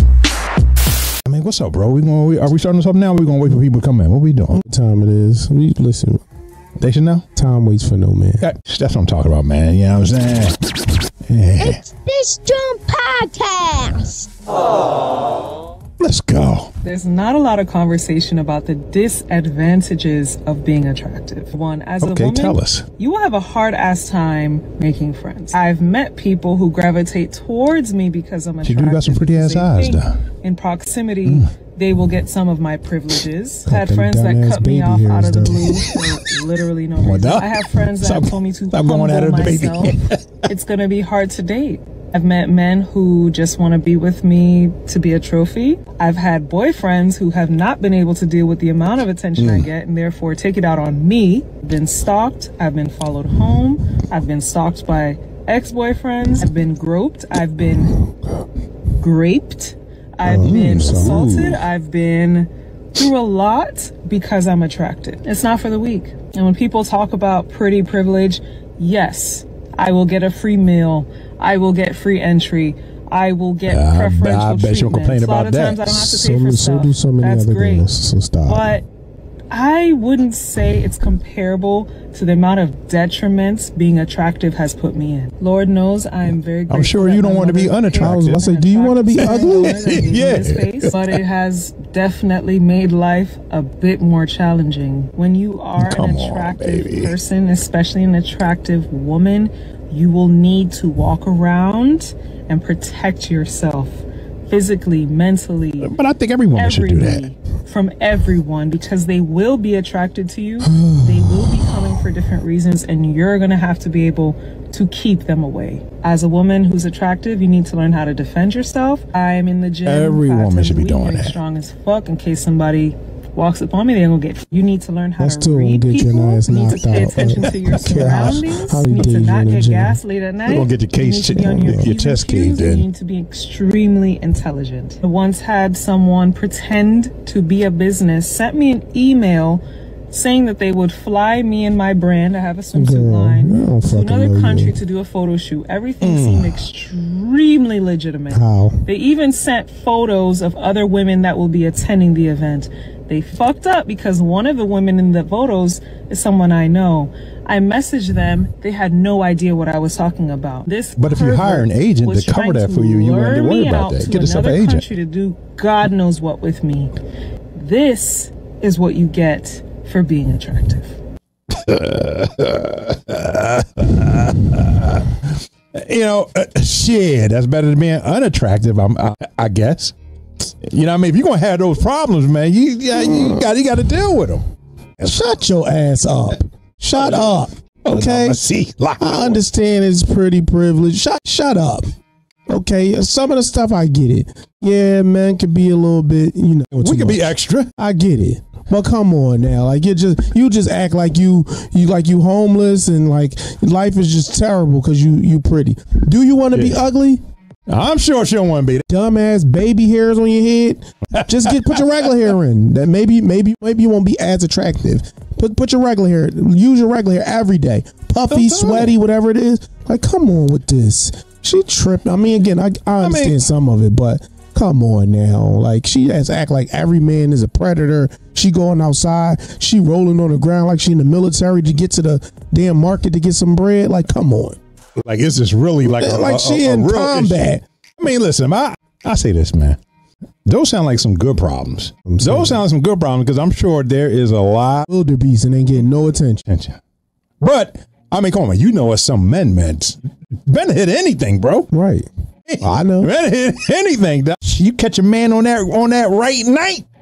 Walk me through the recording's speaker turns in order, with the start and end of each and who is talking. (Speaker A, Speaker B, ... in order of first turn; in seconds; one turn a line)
Speaker A: 1.3-4.6
Speaker B: 4.5-6.2
Speaker A: 6.8-7.2
Speaker B: 7.4-8.4
Speaker A: 8.4-10.6
Speaker A: 11.3-11.8
Speaker C: 11.6-14.3
Speaker A: 16.0-16.7
Speaker D: 16.8-58.0
Speaker A: 22.0-22.9
Speaker A: 28.6-30.2
Speaker B: 33.7-35.8
Speaker A: 37.0-40.5
Speaker A: 49.4-49.7
Speaker D: 58.9-77.9
Speaker A: 60.2-61.6
Speaker B: 60.3-61.5
Speaker A: 73.7-76.0
Speaker B: 75.9-78.7
Speaker D: 78.5-78.8
Speaker D: 79.5-105.9
Speaker A: 86.7-88.5
Speaker B: 88.0-90.0
Speaker A: 89.2-90.9
Speaker A: 95.8-97.1
Speaker A: 105.8-107.2
Speaker D: 106.5-166.9
Speaker B: 110.7-111.8
Speaker A: 119.8-121.3
Speaker B: 125.2-130.0
Speaker A: 127.6-128.4
Speaker A: 130.5-132.9
Speaker B: 131.3-131.9
Speaker B: 142.7-144.8
Speaker A: 146.0-146.6
Speaker B: 148.3-148.8
Speaker A: 161.0-164.9
Speaker D: 167.6-171.0
Speaker A: 171.5-184.4
Speaker B: 183.0-183.4
Speaker B: 185.0-188.4
Speaker A: 186.9-187.3
Speaker A: 187.8-189.4
Speaker B: 189.0-191.9
Speaker B: 192.5-207.2
Speaker A: 196.8-197.7
Speaker A: 206.5-206.9
Speaker A: 207.7-208.8
Speaker B: 208.9-234.6
Speaker A: 211.2-211.9
Speaker A: 218.3-219.0
Speaker A: 223.0-223.4
Speaker A: 235.0-239.8
Speaker B: 235.8-237.6
Speaker A: 240.5-244.9
Speaker B: 242.1-242.6
Speaker B: 244.9-246.4
Speaker A: 246.5-246.8
Speaker A: 247.4-251.7
Speaker B: 251.7-252.1
Speaker A: 252.5-256.9
Speaker B: 252.6-253.1